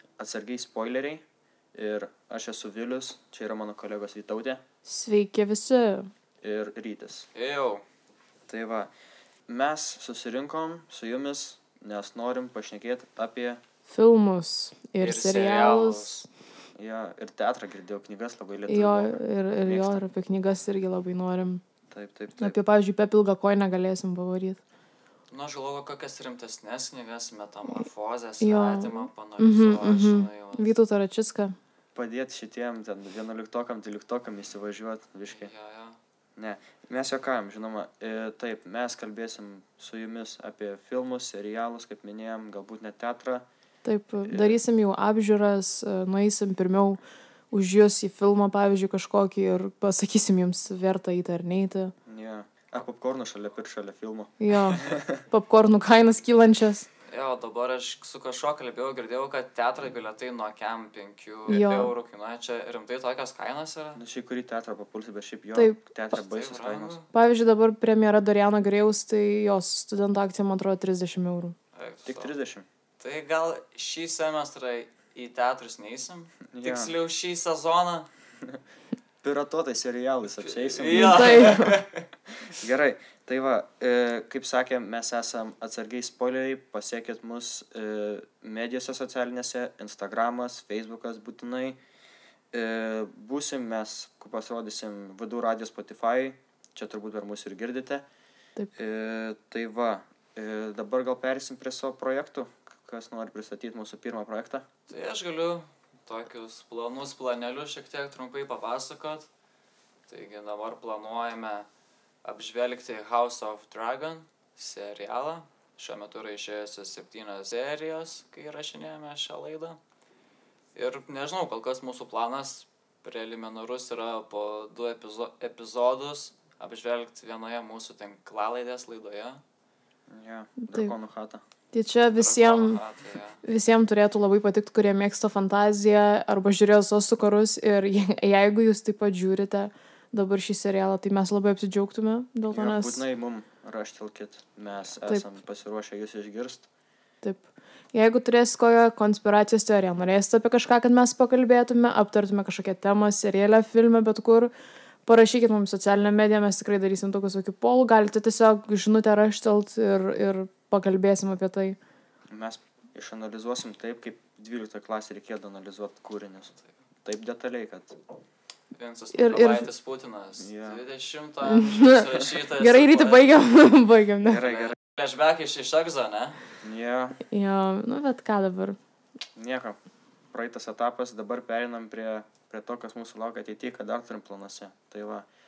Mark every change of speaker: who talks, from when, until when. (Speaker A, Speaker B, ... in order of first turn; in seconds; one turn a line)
Speaker A: 0.2-4.6
Speaker B: 4.8-6.1
Speaker A: 6.4-7.3
Speaker C: 7.3-7.8
Speaker A: 8.5-8.9
Speaker A: 9.5-13.6
Speaker B: 13.9-16.3
Speaker C: 15.0-16.2
Speaker A: 16.8-20.0
Speaker B: 18.7-21.6
Speaker A: 21.9-22.6
Speaker B: 22.4-24.6
Speaker C: 25.3-30.7
Speaker B: 28.4-31.5
Speaker A: 31.9-35.5
Speaker C: 35.3-36.0
Speaker A: 36.4-43.5
Speaker B: 43.8-47.0
Speaker A: 44.2-44.6
Speaker B: 47.5-51.9
Speaker A: 52.0-55.2
Speaker B: 54.4-56.9
Speaker C: 57.1-64.0
Speaker B: 61.5-61.9
Speaker A: 64.0-67.0
Speaker B: 65.5-65.8
Speaker C: 66.1-67.1
Speaker B: 67.1-71.5
Speaker C: 71.7-72.3
Speaker A: 72.0-72.7
Speaker C: 73.0-78.1
Speaker A: 76.5-76.9
Speaker A: 79.2-81.6
Speaker C: 80.4-82.0
Speaker B: 80.9-81.8
Speaker A: 82.5-91.8
Speaker A: 92.5-98.0
Speaker A: 98.7-104.7
Speaker C: 104.9-109.3
Speaker C: 110.1-111.7
Speaker C: 112.2-119.8
Speaker C: 120.7-129.4
Speaker A: 130.1-131.4
Speaker B: 131.7-132.8
Speaker C: 132.1-133.4
Speaker B: 133.4-143.0
Speaker A: 142.5-146.7
Speaker B: 147.2-154.5
Speaker B: 155.1-161.8
Speaker A: 162.3-168.0
Speaker C: 168.7-173.5
Speaker B: 169.1-169.7
Speaker A: 170.4-170.8
Speaker B: 171.4-174.5
Speaker A: 174.2-174.7
Speaker C: 174.3-176.4
Speaker A: 176.6-177.2
Speaker B: 177.3-178.8
Speaker A: 179.3-179.8
Speaker A: 180.3-185.2